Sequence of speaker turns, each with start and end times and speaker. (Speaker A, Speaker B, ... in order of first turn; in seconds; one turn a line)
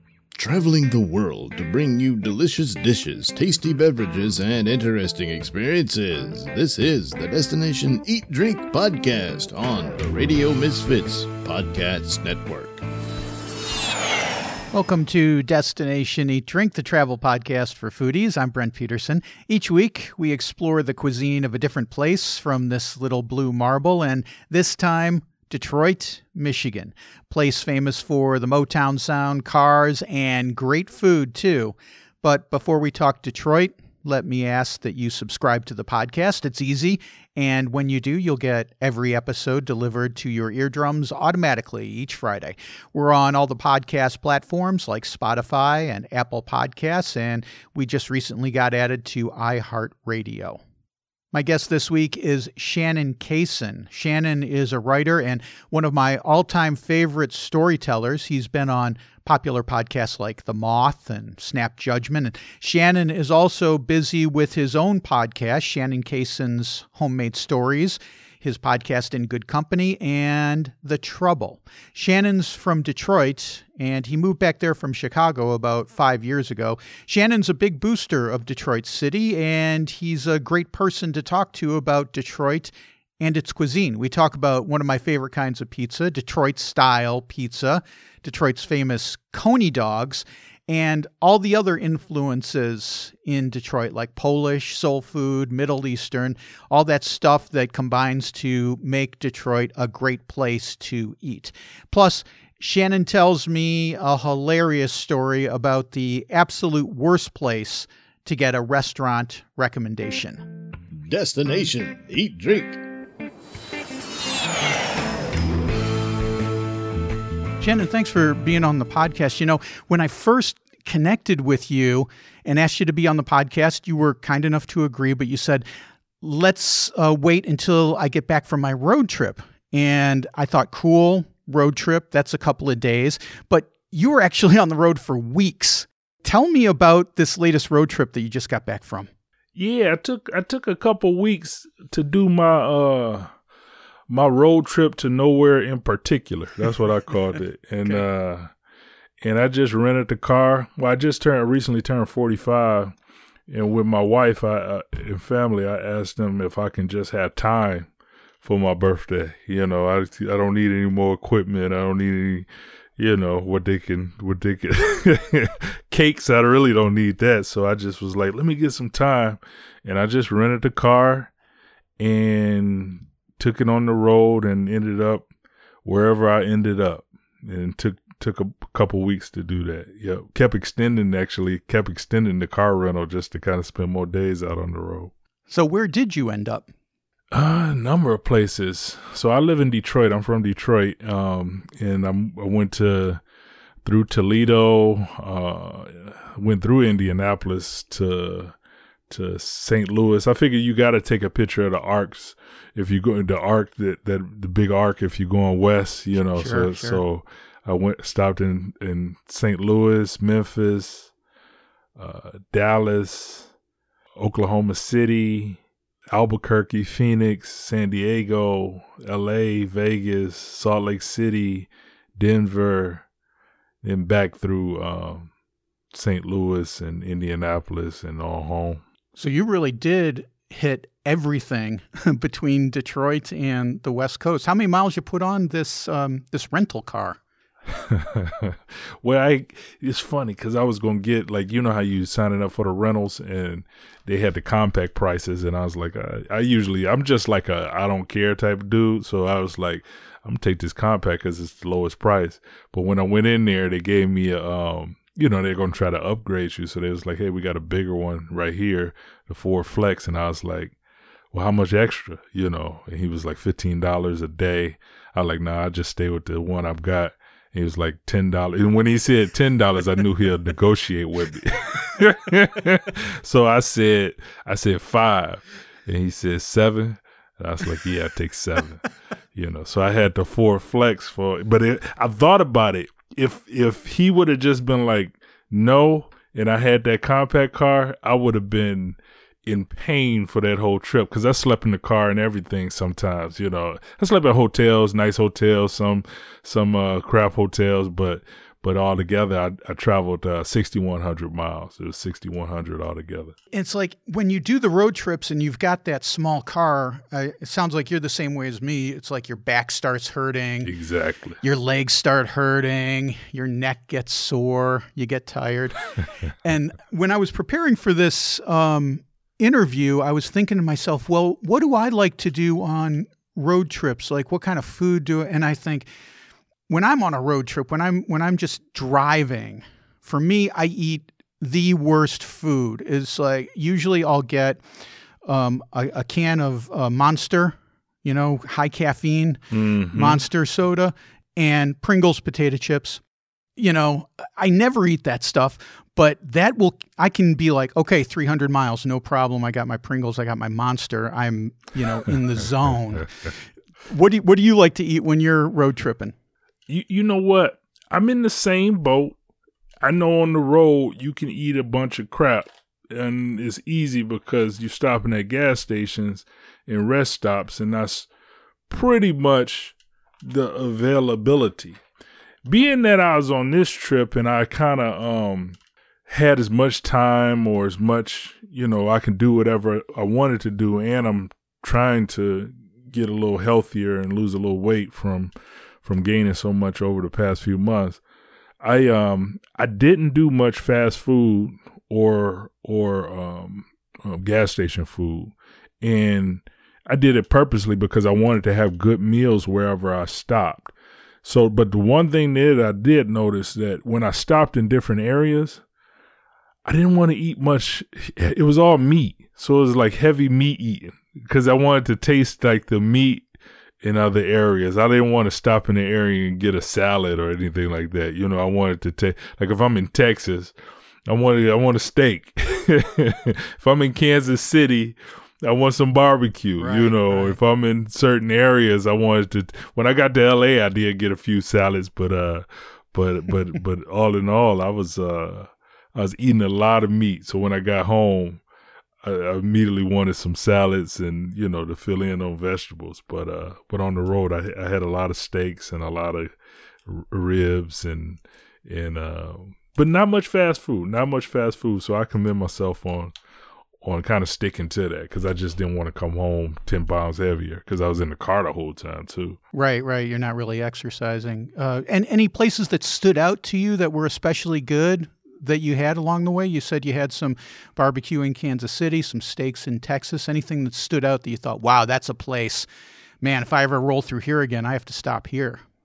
Speaker A: 0.4-12.8
Speaker B: 14.7-50.6
Speaker B: 51.3-110.4
Speaker A: 110.9-112.8
Speaker B: 117.6-125.7
Speaker B: 126.2-139.1
Speaker C: 139.6-143.3
Speaker C: 144.1-148.5
Speaker C: 149.2-152.9
Speaker C: 153.5-157.9
Speaker C: 158.4-171.3
Speaker C: 172.0-175.3
Speaker C: 175.8-185.1
Speaker B: 185.5-186.7
Speaker C: 187.3-193.2
Speaker C: 193.8-198.6
Speaker C: 199.1-211.1
Speaker B: 206.4-207.0
Speaker C: 212.0-213.5
Speaker C: 214.2-215.6
Speaker C: 216.1-223.1
Speaker C: 223.8-225.3
Speaker C: 225.9-228.8
Speaker B: 229.2-237.2
Speaker C: 237.7-260.8
Speaker C: 261.3-303.4
Speaker B: 303.5-310.7
Speaker C: 310.7-311.4
Speaker B: 311.4-325.9
Speaker B: 326.7-334.6
Speaker B: 335.2-343.0
Speaker C: 339.5-340.2
Speaker B: 343.6-353.3
Speaker B: 353.9-356.1
Speaker C: 356.7-359.2
Speaker C: 359.8-368.1
Speaker C: 368.7-371.8
Speaker C: 372.5-388.0
Speaker C: 388.6-405.6
Speaker C: 406.6-413.3
Speaker C: 413.8-420.6
Speaker C: 421.1-438.4
Speaker B: 426.6-427.4
Speaker C: 439.0-446.3
Speaker C: 446.9-453.1
Speaker C: 453.8-459.4
Speaker B: 459.5-472.7
Speaker B: 473.2-475.6